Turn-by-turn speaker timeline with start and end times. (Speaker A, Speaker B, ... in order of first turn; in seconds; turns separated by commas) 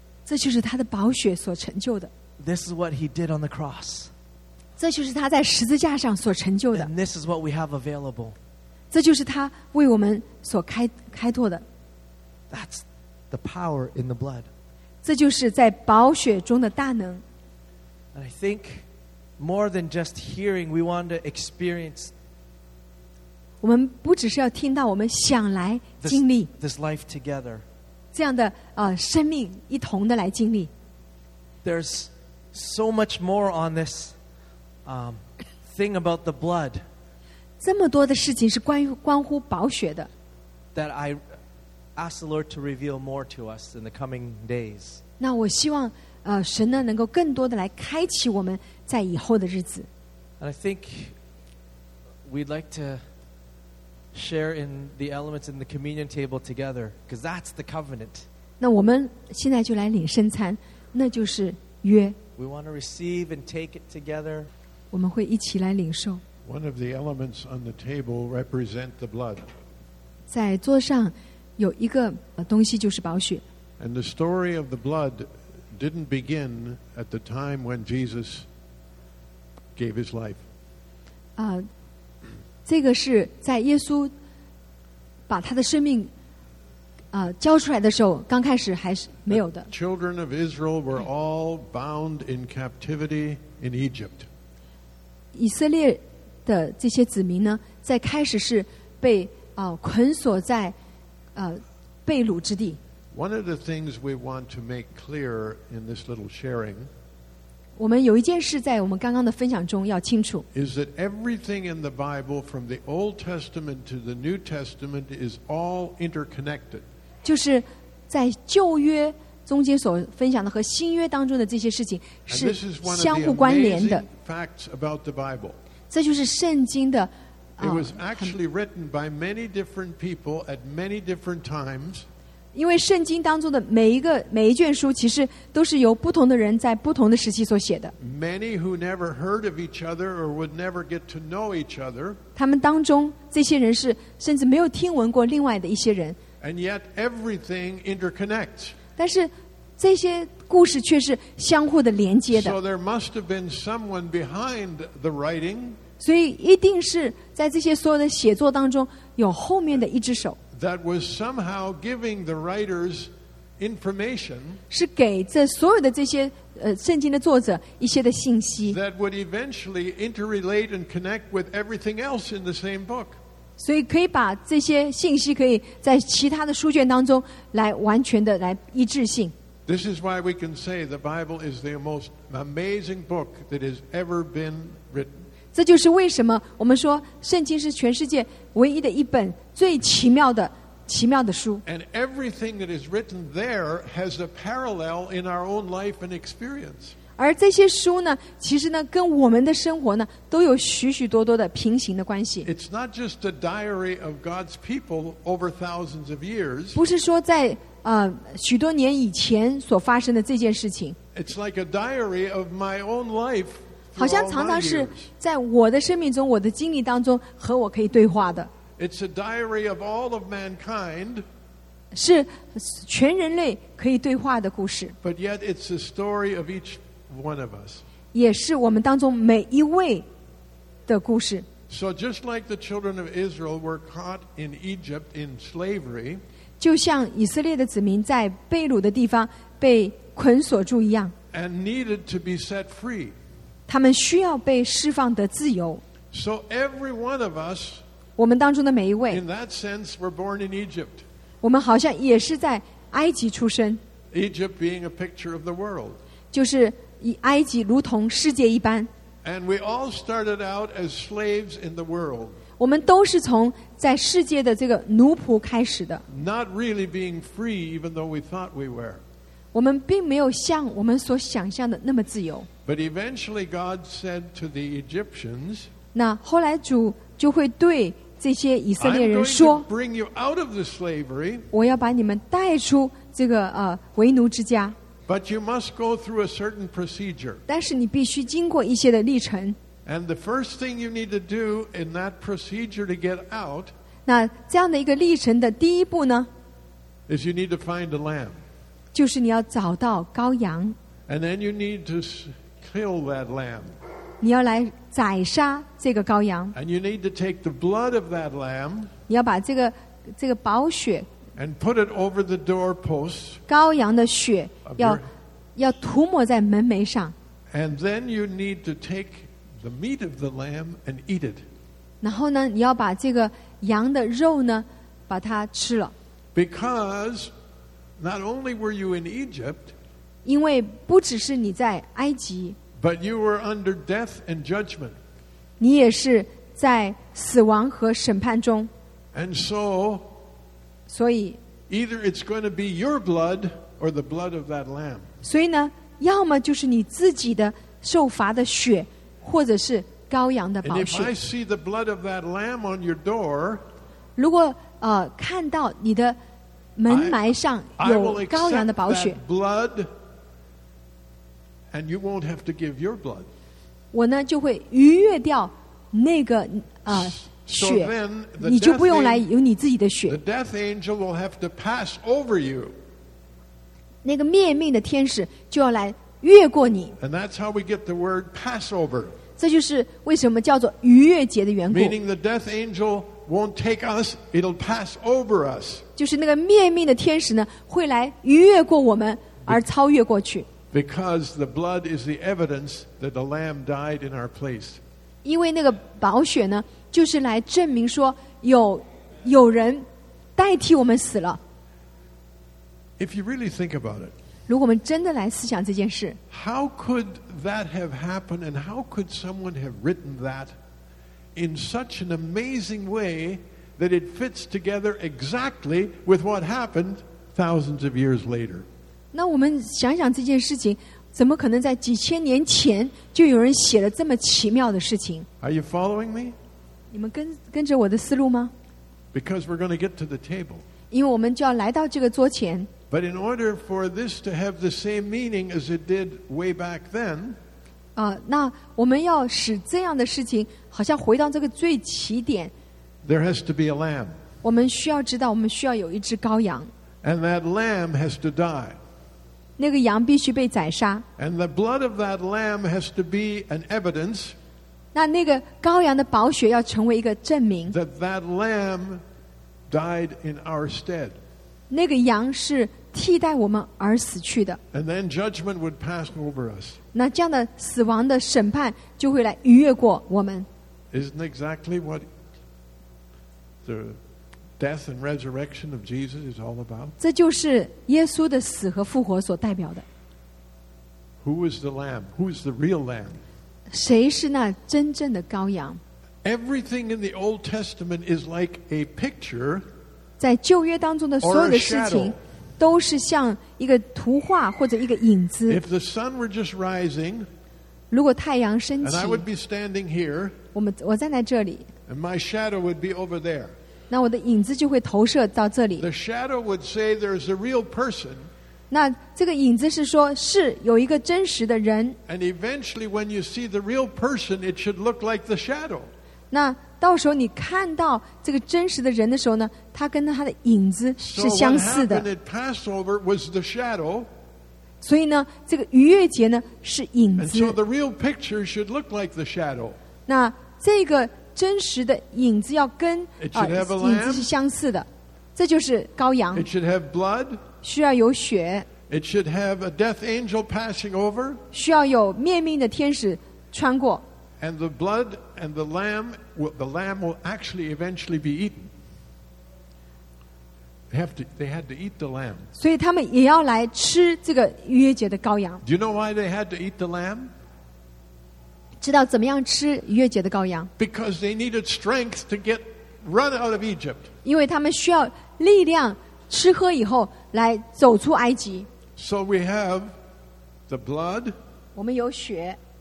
Speaker A: 0.3-2.1, Speaker B: 2.4-4.1, Speaker A: 4.8-6.9, Speaker B: 6.7-8.4, Speaker A: 8.9-11.6, Speaker B: 12.5-14.5, Speaker A: 15.0-17.2, Speaker B: 18.1-18.9, Speaker B: 19.4-22.1, Speaker A: 23.6-26.5, Speaker B: 26.0-27.6, Speaker A: 28.1-30.7, Speaker B: 31.6-34.1, Speaker B: 34.9-36.8, Speaker A: 37.6-40.1, Speaker B: 40.8-41.2, Speaker B: 42.0-45.0, Speaker A: 45.2-49.9, Speaker B: 50.4-51.2, Speaker B: 52.2-53.0, Speaker B: 54.1-58.3, Speaker A: 58.6-62.2, Speaker B: 62.4-64.5, Speaker A: 64.9-66.2, Speaker C: 66.5-69.5, Speaker A: 70.3-73.4, Speaker C: 73.8-78.5, Speaker C: 79.8-80.4, Speaker A: 81.4-81.7, Speaker A: 82.7-84.1, Speaker A: 85.3-86.1, Speaker A: 87.1-89.7, Speaker C: 89.3-94.3, Speaker A: 95.3-100.8, Speaker A: 101.3-102.8, Speaker C: 103.1-106.9, Speaker A: 107.8-110.5, Speaker C: 110.5-116.8, Speaker A: 117.2-124.0, Speaker C: 122.3-125.6, Speaker A: 125.9-128.4, Speaker C: 127.6-132.1, Speaker A: 132.5-137.9, Speaker C: 138.0-142.2, Speaker A: 142.4-146.2, Speaker C: 146.4-148.8, Speaker A: 149.0-152.6, Speaker C: 152.3-155.8, Speaker A: 156.0-160.4, Speaker C: 160.5-164.6, Speaker A: 164.7-168.8, Speaker C: 168.7-173.2, Speaker A: 173.6-179.3, Speaker C: 179.7-185.2, Speaker A: 185.5-191.6, Speaker C: 191.7-196.9, Speaker A: 197.2-202.5, Speaker C: 202.4-206.8, Speaker A: 206.8-211.0, Speaker C: 211.1-215.1, Speaker A: 214.0-218.5, Speaker C: 218.8-221.2, Speaker A: 221.9-224.9, Speaker C: 225.0-227.8, Speaker A: 228.1-230.1, Speaker A: 230.9-231.5, Speaker C: 231.7-236.2, Speaker A: 236.6-241.1, Speaker C: 241.3-243.1, Speaker A: 243.7-245.8, Speaker C: 246.1-247.8, Speaker A: 248.2-249.2, Speaker C: 249.1-251.0, Speaker A: 251.4-253.8, Speaker C: 254.1-256.0, Speaker A: 256.3-258.9, Speaker C: 259.2-262.4, Speaker A: 262.6-266.0, Speaker C: 266.1-269.0, Speaker A: 269.5-272.5, Speaker C: 272.7-275.7, Speaker A: 275.9-279.7, Speaker C: 278.8-281.5, Speaker A: 281.5-284.8, Speaker C: 285.1-287.4, Speaker A: 287.5-289.6, Speaker C: 289.9-293.7, Speaker A: 294.1-296.3, Speaker C: 297.1-298.4, Speaker A: 298.9-300.8, Speaker C: 301.1-303.7, Speaker A: 304.2-306.6, Speaker C: 306.6-308.9, Speaker A: 309.1-311.1, Speaker C: 311.4-313.4, Speaker A: 313.5-315.0, Speaker C: 314.6-315.0, Speaker A: 315.6-317.1, Speaker C: 317.5-321.4, Speaker A: 322.0-325.9, Speaker C: 326.4-327.3, Speaker C: 328.0-329.7, Speaker A: 330.2-332.6, Speaker C: 332.8-335.0, Speaker A: 335.6-338.7, Speaker C: 339.1-340.1, Speaker A: 340.9-341.4, Speaker C: 341.7-345.1, Speaker A: 345.2-351.1, Speaker C: 350.6-353.6, Speaker A: 354.2-356.2, Speaker A: 356.8-359.2, Speaker C: 356.9-357.2, Speaker C: 357.8-359.9, Speaker C: 361.7-363.3, Speaker A: 363.9-370.2, Speaker C: 366.9-369.3, Speaker C: 370.1-372.7, Speaker A: 374.0-377.0, Speaker C: 377.0-379.2, Speaker A: 379.4-382.0, Speaker C: 381.7-385.9, Speaker A: 386.0-390.5, Speaker C: 390.7-394.8, Speaker A: 395.2-401.4, Speaker C: 403.0-404.1, Speaker A: 404.5-406.2, Speaker C: 406.3-410.5, Speaker C: 411.4-418.7, Speaker A: 419.1-425.3, Speaker C: 425.4-426.4, Speaker A: 426.9-428.5, Speaker C: 429.1-430.6, Speaker A: 430.9-432.7, Speaker C: 432.9-437.4, Speaker A: 438.0-442.5, Speaker C: 443.0-444.1, Speaker A: 444.4-446.7, Speaker C: 447.0-448.8, Speaker A: 449.6-451.1, Speaker C: 451.2-454.4, Speaker A: 454.9-457.8, Speaker C: 457.7-459.0, Speaker C: 459.7-461.2, Speaker A: 461.7-464.6, Speaker C: 464.7-466.8, Speaker A: 466.9-470.5, Speaker C: 470.9-472.1, Speaker C: 473.6-474.0, Speaker C: 474.6-476.9, Speaker A: 477.0-479.9, Speaker C: 481.2-483.2, Speaker A: 483.7-485.8, Speaker C: 486.2-489.6, Speaker A: 490.2-495.6, Speaker C: 491.2-492.2, Speaker C: 495.5-497.3, Speaker A: 497.9-499.3, Speaker C: 498.8-500.4, Speaker A: 500.5-501.7, Speaker C: 501.9-503.5, Speaker A: 503.9-505.9, Speaker C: 505.8-508.3, Speaker A: 508.7-512.0, Speaker C: 512.1-515.9, Speaker A: 516.3-522.1, Speaker C: 521.0-524.1, Speaker A: 524.8-527.6, Speaker C: 527.2-529.8, Speaker A: 530.1-536.5, Speaker C: 533.2-534.3, Speaker C: 536.3-537.5, Speaker A: 537.6-538.7, Speaker C: 538.9-541.4, Speaker A: 541.5-544.0, Speaker C: 544.4-548.7, Speaker C: 550.9-552.5, Speaker A: 552.6-555.6, Speaker C: 555.6-557.3, Speaker A: 558.8-560.7, Speaker C: 560.8-564.1, Speaker A: 564.2-568.7, Speaker C: 569.0-569.9, Speaker C: 570.7-571.3, Speaker A: 571.8-572.6